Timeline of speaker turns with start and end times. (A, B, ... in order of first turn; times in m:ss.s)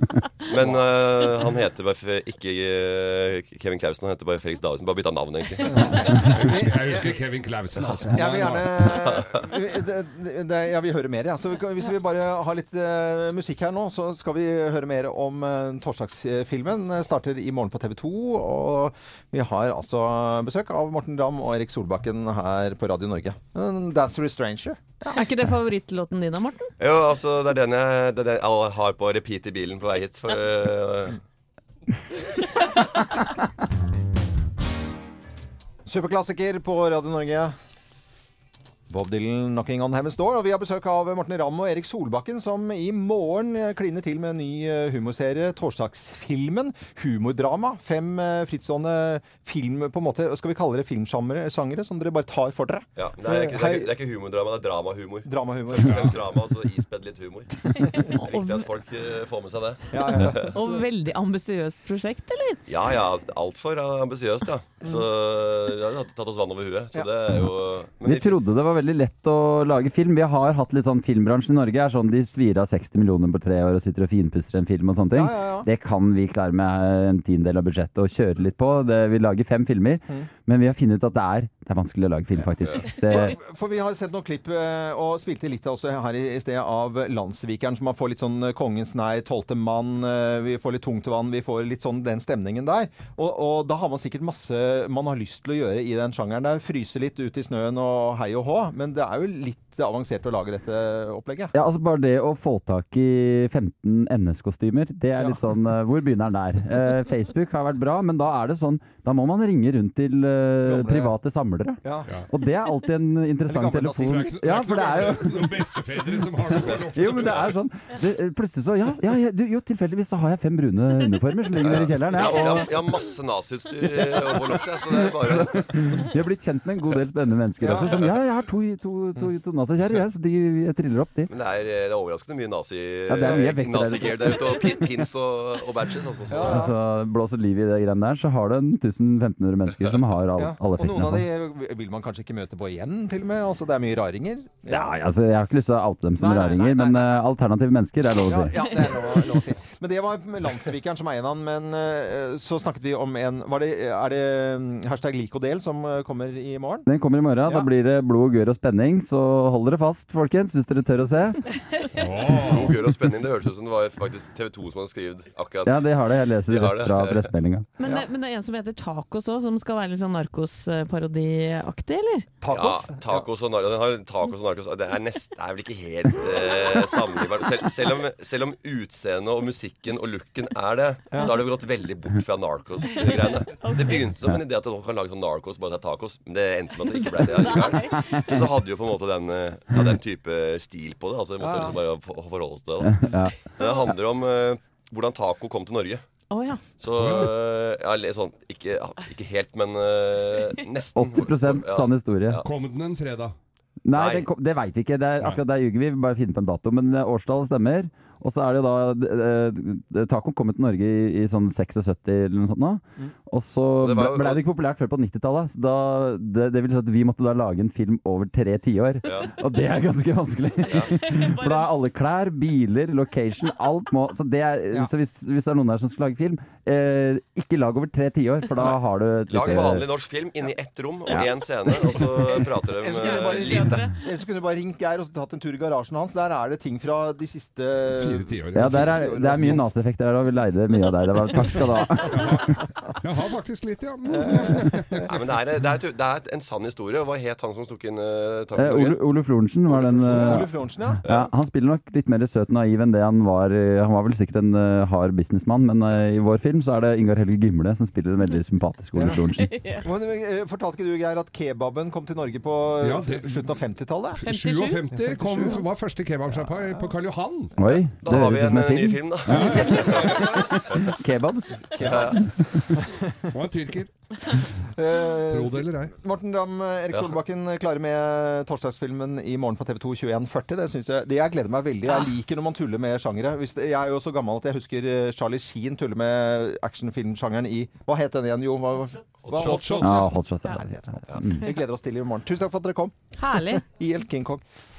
0:00.5-0:06.0 A
0:00.6-0:00.8 B
0:05.6-0:07.1 B
0:05.8-0:08.7 C
0:08.1-0:25.1 B
0:25.0-0:26.7 D
0:26.8-0:31.2 A
0:35.8-0:37.5 B
0:38.9-0:53.9 B
0:53.0-1:00.5 A
0:55.2-0:56.2 B
0:55.8-0:56.1 C
0:58.2-0:58.7 D
0:59.9-1:00.8 B
1:00.5-1:02.6 D
1:02.7-1:08.3 A
1:08.0-1:23.4 E
1:15.1-1:15.7 B
1:23.0-1:41.5 B
1:41.5-1:55.5 E
1:45.2-1:45.4 B
1:50.6-1:51.1 B
1:51.8-1:52.1 B
1:53.4-1:54.9 B
1:54.1-1:57.6 C
1:56.5-2:02.7 E
2:01.5-2:06.0 A
2:04.1-2:04.4 E
2:04.9-2:11.3 E
2:07.6-2:08.0 B
2:07.6-2:08.1 A
2:11.3-2:16.7 A
2:13.1-2:14.8 E
2:16.3-2:16.8 B
2:16.4-2:21.2 E
2:20.4-2:24.9 B
2:24.7-2:28.8 E
2:26.2-2:27.2 B
2:28.2-2:36.9 B
2:36.9-2:41.4 E
2:42.0-2:42.7 C
2:42.3-2:45.8 A
2:45.6-2:47.7 E
2:46.5-2:47.3 A
2:47.8-2:52.3 D
2:52.4-2:53.2 B
2:52.5-3:12.9 A
3:03.6-3:04.0 D
3:11.4-3:11.8 B
3:12.8-3:13.4 E
3:13.6-3:16.0 A
3:16.3-3:16.6 D
3:16.8-3:22.4 A
3:17.0-3:17.3 C
3:21.0-3:22.4 E
3:22.4-3:23.4 C
3:23.8-3:49.8 E
3:23.9-3:24.2 A
3:33.8-3:34.4 A
3:39.0-3:39.3 A
3:40.6-3:41.0 A
3:41.1-3:41.6 D
3:49.3-3:53.9 A
3:51.1-3:52.1 E
3:52.8-3:59.6 B
3:58.0-3:59.6 C
3:58.5-4:02.5 E
4:02.1-4:05.1 C
4:04.1-4:05.0 B
4:05.1-4:09.0 A
4:08.6-4:10.5 E
4:09.7-4:10.4 C
4:10.1-4:11.0 B
4:11.0-4:19.6 E
4:18.9-4:19.2 B
4:19.5-4:19.8 D
4:19.8-4:24.2 B
4:22.8-4:23.4 C
4:24.2-4:27.5 C
4:24.2-4:24.8 D
4:24.9-4:25.6 B
4:26.3-4:26.9 B
4:27.6-4:32.4 E
4:28.0-4:30.8 A
4:29.3-4:30.4 C
4:31.7-4:33.3 B
4:31.8-4:32.2 A
4:33.3-4:33.9 C
4:34.6-4:53.0 B
4:35.3-4:35.9 C
4:49.2-4:50.1 C
4:49.8-4:51.4 E
4:53.2-4:53.6 D
4:53.6-4:54.4 B